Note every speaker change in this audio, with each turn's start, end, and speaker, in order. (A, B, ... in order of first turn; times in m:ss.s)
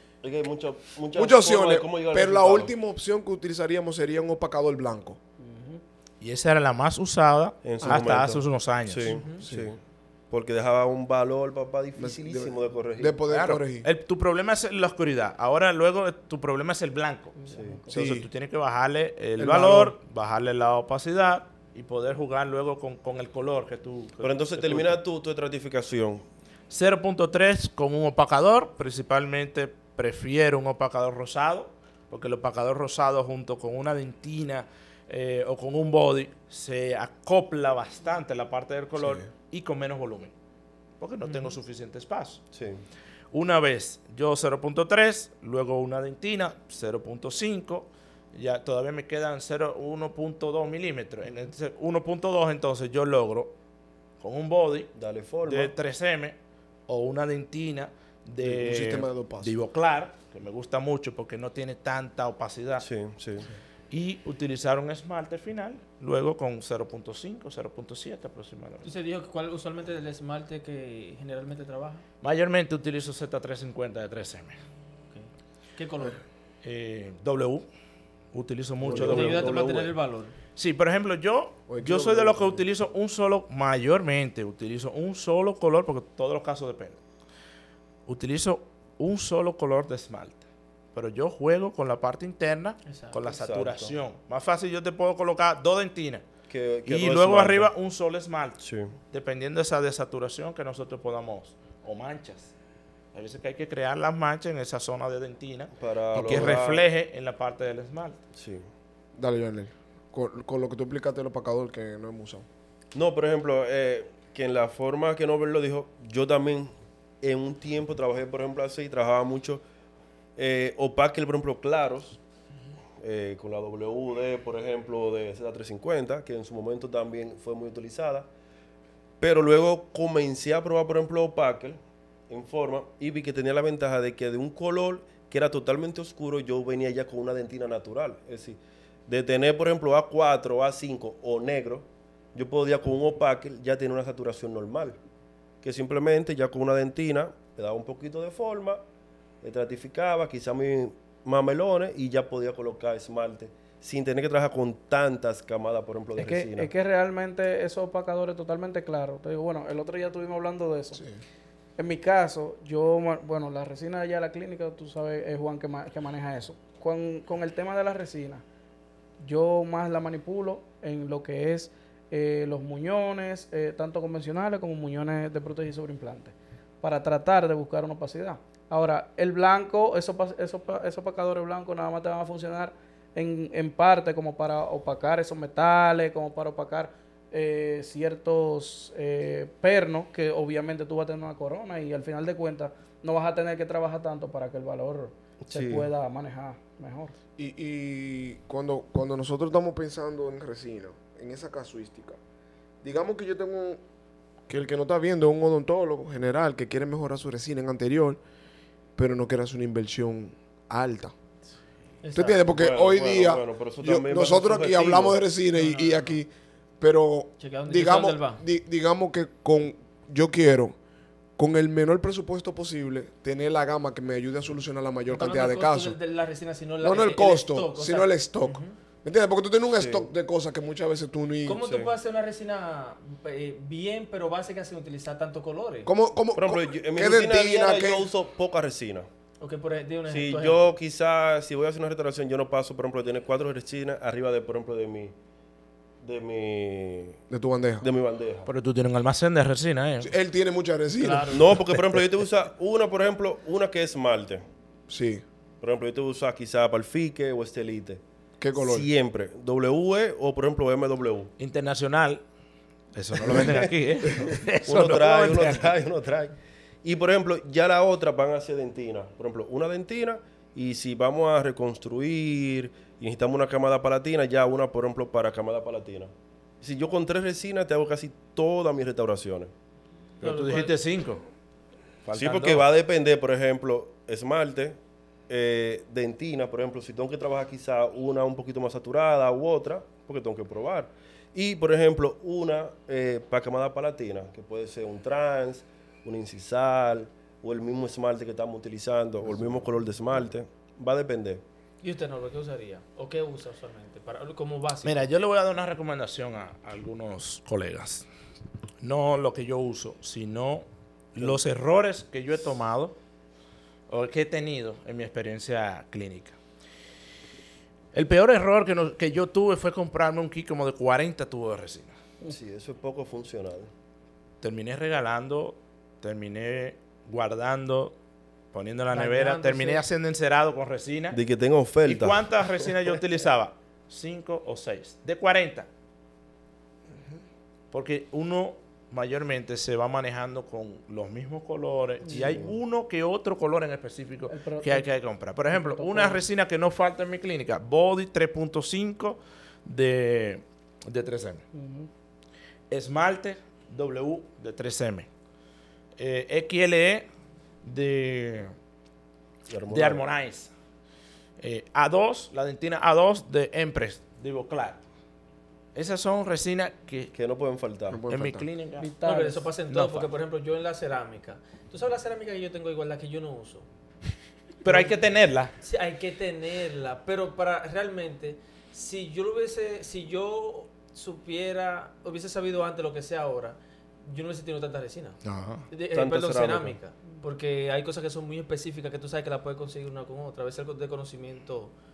0:00.2-0:02.7 A
0:01.1-0:05.2 B
0:05.4-0:05.8 C
0:06.2-0:09.2 D
0:07.6-0:09.8 A
0:09.0-0:09.4 E
0:10.3-0:13.2 A
0:12.0-0:13.9 B
0:13.3-0:17.4 D
0:17.4-0:17.9 C
0:17.5-0:17.8 A
0:17.9-0:18.3 B
0:17.9-0:25.0 D
0:19.4-0:19.9 B
0:24.2-0:26.2 A
0:26.7-0:40.3 D
0:39.0-0:39.2 B
0:41.0-0:42.4 D
0:41.3-0:41.5 E
0:42.5-0:42.8 A
0:43.3-0:53.5 D
0:54.2-0:54.9 D
0:54.9-0:55.7 A
0:55.5-0:56.4 D
0:56.9-1:02.8 D
0:58.4-0:59.6 B
1:02.8-1:03.5 A
1:03.9-1:08.9 D
1:08.8-1:12.0 E
1:12.2-1:14.6 D
1:15.1-1:16.2 E
1:16.6-1:17.6 D
1:18.3-1:19.5 D
1:18.8-1:19.6 B
1:18.9-1:19.9 A
1:19.0-1:20.3 E
1:20.6-1:27.0 D
1:21.7-1:22.6 B
1:28.1-1:30.4 D
1:30.9-1:36.2 D
1:32.8-1:33.2 E
1:33.3-1:33.9 A
1:36.5-1:37.7 A
1:36.8-1:38.6 D
1:38.6-1:39.0 A
1:39.1-1:42.5 D
1:43.1-1:48.2 D
1:45.8-1:46.8 A
1:46.1-1:46.7 B
1:48.3-1:48.7 A
1:49.2-1:52.4 B
1:52.9-1:59.6 A
2:00.4-2:02.2 A
2:03.0-2:08.3 A
2:09.2-2:11.8 A
2:12.3-2:25.0 A
2:25.6-2:28.8 A
2:29.4-2:36.7 A
2:36.2-2:41.0 C
2:41.8-2:48.4 C
2:49.2-3:17.1 C
3:15.4-3:15.9 A
3:17.4-3:22.2 B
3:22.8-3:23.8 B
3:24.5-3:28.2 B
3:29.0-3:31.1 B
3:32.0-3:32.4 E
3:32.1-3:40.8 B
3:32.5-3:35.2 A
3:35.5-3:36.1 E
3:37.4-3:38.4 E
3:41.4-3:46.0 B
3:45.1-3:48.7 E
3:46.8-3:51.6 B
3:49.8-3:50.0 A
3:51.4-3:55.9 E
3:51.6-3:51.9 A
3:55.8-3:58.1 B
3:56.4-3:59.1 A
3:59.4-4:00.6 E
4:00.1-4:05.1 A
4:06.0-4:07.2 A
4:07.3-4:07.8 B
4:07.8-4:08.5 A
4:08.4-4:10.1 D
4:10.0-4:11.6 B
4:11.0-4:11.6 E
4:11.3-4:14.4 A
4:14.9-4:15.2 B
4:15.6-4:18.0 A
4:18.4-4:18.9 B
4:18.6-4:21.3 A
4:21.4-4:22.2 D
4:22.9-4:25.7 D
4:23.2-4:23.5 B
4:24.6-4:39.5 A
4:40.2-4:41.2 D
4:40.2-4:40.7 E
4:42.0-4:42.6 D
4:42.1-4:44.8 A
4:45.3-5:01.4 A
5:01.8-5:05.1 E
5:04.8-5:08.0 D
5:08.8-5:13.0 D
5:13.9-5:16.3 D
5:17.9-5:21.9 D
5:22.3-5:23.7 A
5:24.4-5:27.9 D
5:28.5-5:31.2 D
5:28.9-5:29.8 E
5:31.1-5:32.2 A
5:31.8-5:35.7 D
5:37.7-5:51.4 D
5:42.1-5:42.4 C
5:42.1-5:42.5 A
5:44.3-5:44.9 C
5:45.5-5:46.2 C
5:51.5-5:51.9 C
5:52.7-5:55.1 D
5:56.0-5:57.0 D
5:57.6-5:58.5 D
5:59.5-6:00.0 A
5:59.7-6:00.5 D
6:01.4-6:04.8 D
6:05.7-6:07.1 D
6:07.1-6:08.0 A
6:07.9-6:08.5 B
6:08.1-6:08.9 D
6:08.8-6:09.4 C
6:09.0-6:13.6 E
6:09.7-6:10.1 D
6:14.6-6:15.5 D
6:14.6-6:14.9 E
6:15.6-6:25.2 E
6:25.3-6:25.6 D
6:25.7-6:31.7 E
6:25.9-6:26.8 A